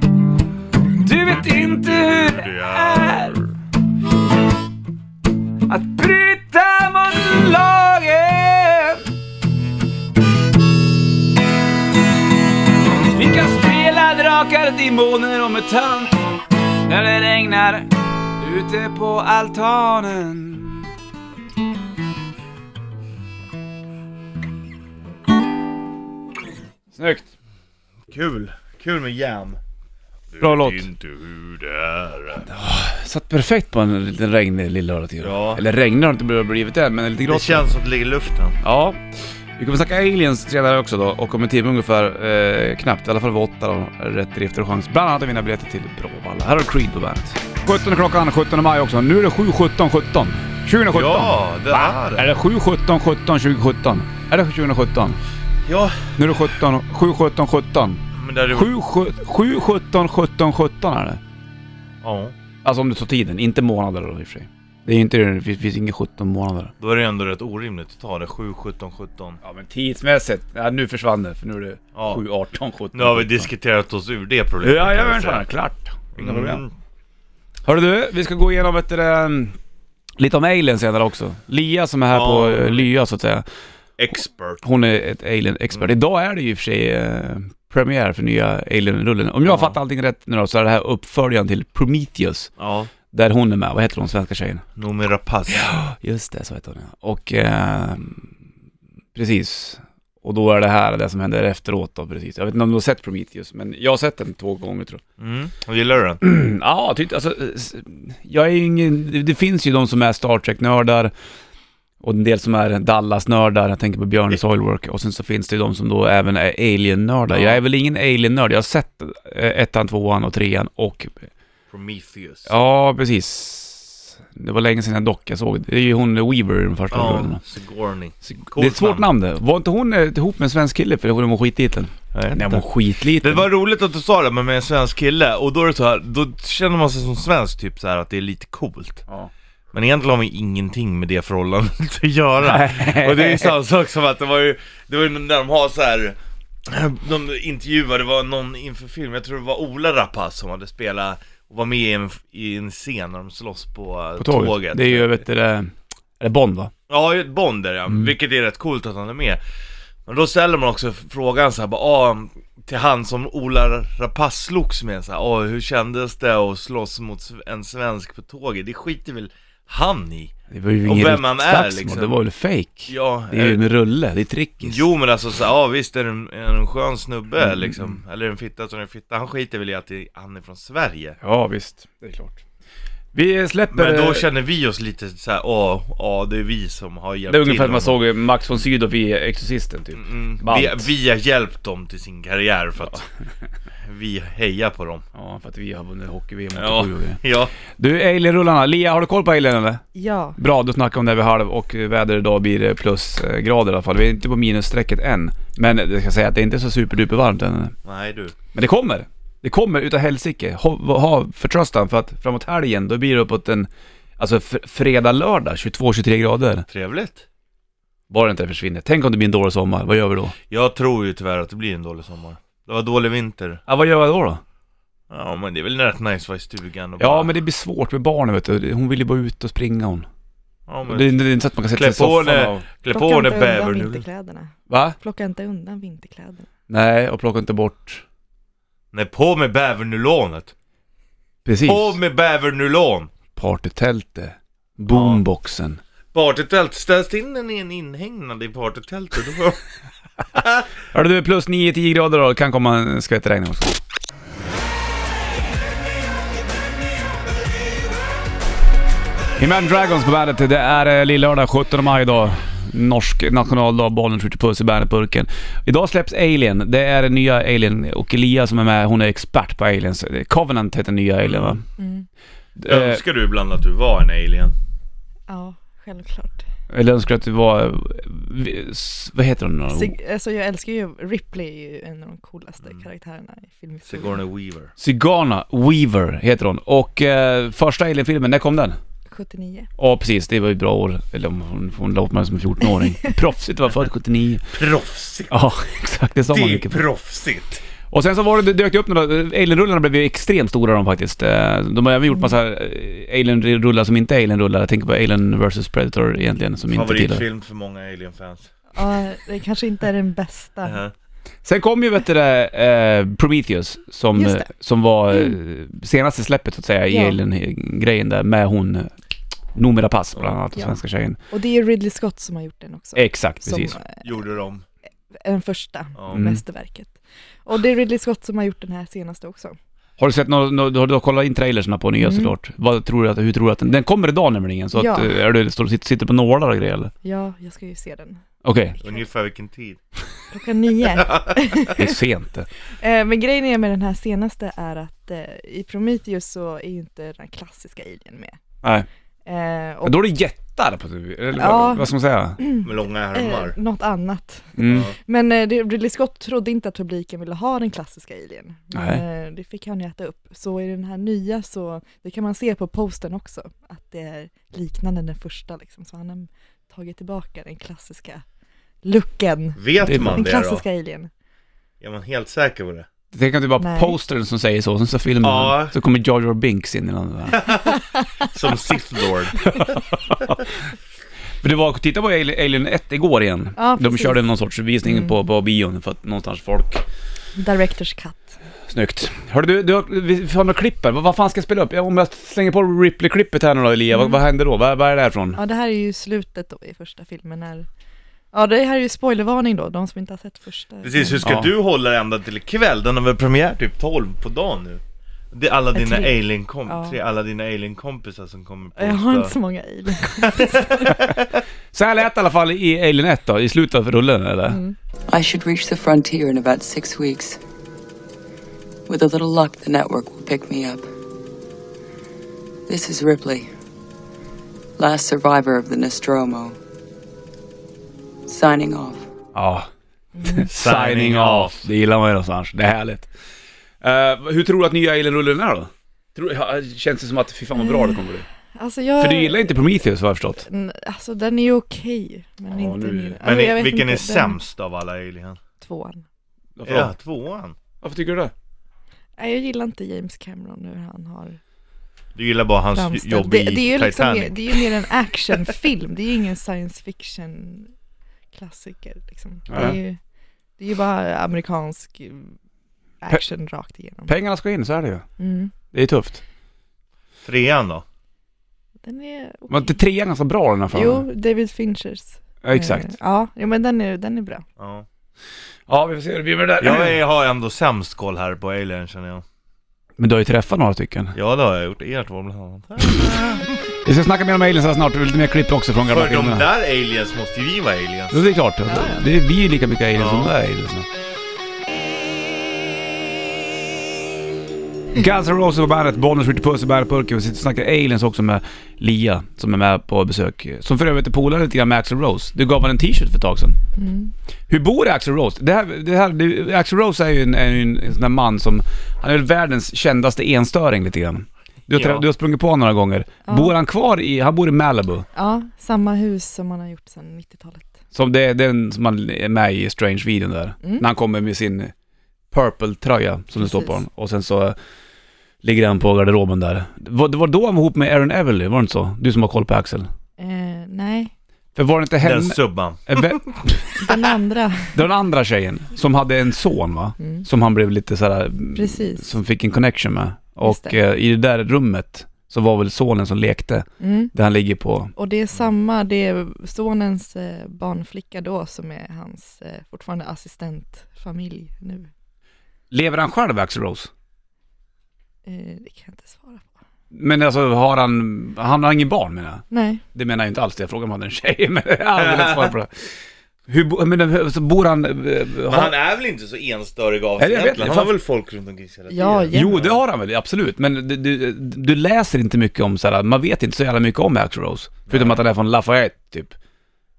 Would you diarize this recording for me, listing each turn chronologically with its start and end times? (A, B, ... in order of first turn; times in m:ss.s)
0:01.0-0:03.4 A
0:01.4-0:03.5 B
0:05.7-0:09.0 A
0:13.0-0:16.2 A
0:16.8-0:20.9 A
0:26.9-0:27.3 A
0:28.1-0:29.6 B
0:30.3-0:32.4 B
0:30.4-0:30.9 A
0:32.4-0:37.7 A
0:35.2-0:35.6 B
0:37.3-0:38.6 B
0:38.6-0:39.0 A
0:39.6-0:55.2 A
0:50.9-0:52.3 B
0:55.6-0:56.3 B
0:56.2-0:58.0 A
0:58.1-0:58.7 B
0:58.5-1:01.2 A
1:02.0-1:02.4 B
1:02.6-1:06.7 A
1:06.8-1:09.4 B
1:09.4-1:13.5 A
1:11.9-1:12.2 B
1:12.9-1:15.4 B
1:14.6-1:16.6 A
1:16.1-1:16.7 B
1:17.6-1:19.6 A
1:20.2-1:23.4 A
1:22.1-1:22.9 B
1:24.0-1:24.6 B
1:24.6-1:32.5 A
1:29.4-1:29.8 B
1:32.6-1:32.9 B
1:33.1-1:34.6 A
1:34.8-1:35.7 B
1:35.5-1:38.3 A
1:39.1-1:45.0 A
1:45.2-1:46.2 B
1:46.2-1:51.1 A
1:52.0-2:01.3 A
1:57.3-1:57.6 B
2:01.7-2:02.5 B
2:02.4-2:07.4 A
2:06.9-2:09.1 B
2:08.2-2:13.5 A
2:12.1-2:12.6 B
2:13.2-2:19.0 B
2:19.7-2:35.2 B
2:22.4-2:23.5 A
2:34.2-2:36.7 A
2:36.9-2:39.4 B
2:40.0-2:50.3 B
2:50.5-2:54.8 A
2:50.8-2:52.2 B
2:52.9-2:53.6 B
2:54.6-3:01.2 B
2:57.4-2:57.9 A
3:01.2-3:02.4 A
3:03.1-3:04.3 A
3:03.7-3:08.0 B
3:07.3-3:10.9 A
3:09.9-3:13.0 B
3:13.8-3:15.0 B
3:15.1-3:17.2 A
3:16.5-3:17.5 B
3:17.8-3:19.8 A
3:19.9-3:20.4 C
3:20.4-3:27.7 A
3:27.8-3:28.4 B
3:28.5-3:36.7 A
3:36.7-3:37.2 B
3:38.1-3:40.3 A
3:40.5-3:43.6 B
3:43.7-3:44.4 A
3:45.1-3:47.3 B
3:47.0-3:50.1 A
3:50.7-3:51.2 B
3:50.8-3:52.6 A
3:51.7-3:54.0 B
3:52.9-3:56.5 C
3:54.7-3:55.0 A
3:56.7-3:58.0 A
3:58.9-4:00.5 B
4:01.4-4:02.0 A
4:01.6-4:03.1 B
4:03.4-4:05.8 A
4:04.9-4:05.2 B
4:06.1-4:09.6 B
4:10.4-4:10.6 B
4:10.9-4:13.8 A
4:19.4-4:31.6 A
4:31.2-4:31.6 B
4:31.8-4:32.1 C
4:32.6-4:33.0 A
4:32.6-4:34.5 B
4:35.3-4:36.4 C
4:36.7-4:39.9 A
4:39.7-4:44.2 C
4:43.9-4:44.7 B
4:44.8-4:48.8 A
4:49.1-4:49.7 C
4:49.8-4:54.5 A
4:54.5-4:55.3 B
4:55.3-4:56.8 A
4:56.3-4:57.6 B
4:57.9-5:07.2 A
5:06.7-5:08.5 B
5:08.7-5:10.8 C
5:10.6-5:10.9 B
5:11.4-5:18.9 A
5:14.1-5:14.5 C
5:16.9-5:17.2 C
5:19.5-5:21.2 A
5:21.3-5:24.0 C
5:23.0-5:23.8 A
5:24.0-5:24.6 B
5:25.2-5:29.6 C
5:26.0-5:26.2 B
5:26.1-5:26.4 A
5:30.0-5:36.9 A
5:32.0-5:32.3 C
5:34.7-5:35.2 C
5:37.0-5:38.2 C
5:38.4-5:38.8 A
5:38.8-5:39.8 B
5:40.3-5:41.9 C
5:41.0-5:41.4 B
5:41.7-5:42.5 A
5:42.8-5:48.4 C
5:49.2-5:50.0 C
5:49.8-5:52.4 A
5:51.4-6:08.2 C
5:52.6-5:53.6 B
5:54.6-5:54.9 A
5:54.6-5:54.9 B
5:58.7-5:59.0 A
6:08.8-6:11.1 C
6:09.6-6:10.6 B
6:09.8-6:10.2 A
6:11.8-6:12.9 B
6:13.1-6:17.4 A
6:13.6-6:14.0 C
6:15.2-6:15.7 B
6:17.3-6:17.7 B
6:18.3-6:19.5 B
6:19.4-6:20.4 A
6:21.4-6:26.8 A
6:23.6-6:24.2 C
6:24.8-6:25.1 C
6:27.4-6:28.3 C
6:28.7-6:35.4 A
6:33.9-6:34.2 C
6:35.4-6:37.7 C
6:38.3-6:41.2 C
6:40.8-6:49.3 B
6:41.2-6:41.5 A
6:45.7-6:47.0 C
6:48.8-6:51.0 C
6:50.2-6:51.2 B
6:51.7-6:54.6 A
6:54.5-6:54.8 C
6:55.1-6:57.4 D
6:58.9-7:00.9 D
7:02.7-7:03.5 D
7:04.8-7:06.6 D
7:08.2-7:09.1 D
7:09.3-7:09.7 A
7:10.2-7:10.5 C
7:10.3-7:13.1 A
7:10.5-7:11.6 B
7:13.8-7:18.3 A
7:17.5-7:18.0 C
7:18.5-7:19.6 C
7:19.0-7:20.4 A
7:20.4-7:24.4 C
7:22.5-7:23.2 A
7:23.2-7:25.4 B
7:25.6-7:26.0 C
7:26.6-7:26.9 A
7:26.6-7:27.6 B
7:27.8-7:28.3 A
7:29.2-7:31.4 C
7:32.2-7:34.7 B
7:32.7-7:37.7 C
7:38.3-7:40.0 C
7:39.5-7:39.8 A
7:40.6-7:42.3 C
7:43.0-7:44.1 C
7:44.1-7:45.0 A
7:45.2-7:45.5 C
7:45.7-7:46.2 A
7:47.2-7:47.8 B
7:48.8-7:49.8 C
7:49.5-7:51.0 A
7:50.7-7:54.4 C
7:52.4-7:52.9 A
7:54.6-7:54.8 B
7:55.7-7:57.0 A
7:56.6-7:59.2 B
8:00.0-8:01.2 A
8:01.1-8:03.6 B
8:03.8-8:06.5 A
8:05.8-8:08.2 B
8:08.1-8:10.9 A
8:08.7-8:09.0 C
8:10.0-8:10.3 B
8:14.9-8:23.6 A
8:23.8-8:24.1 C
8:24.5-8:35.0 A
8:31.7-8:32.0 B
8:33.3-8:33.5 C
8:35.1-8:37.7 C
8:37.9-8:41.7 A
8:42.3-8:44.6 A
8:43.4-8:43.8 C
8:45.4-8:49.9 A
8:50.2-8:51.1 C
8:51.6-8:53.7 A
8:52.0-8:54.0 B
8:53.8-8:54.7 C
8:54.7-9:04.9 A
8:57.0-8:57.2 C
8:58.5-8:59.1 C
9:00.4-9:00.8 C
9:03.8-9:04.1 C
9:05.0-9:11.9 C
9:12.7-9:13.9 A
9:15.2-9:16.5 C
9:16.9-9:22.7 A
9:19.5-9:19.8 C
9:21.9-9:22.5 B
9:23.5-9:25.7 A
9:25.5-9:29.8 B
9:27.2-9:27.9 A
9:28.9-9:29.5 C
9:29.3-9:36.3 A
9:34.9-9:35.2 B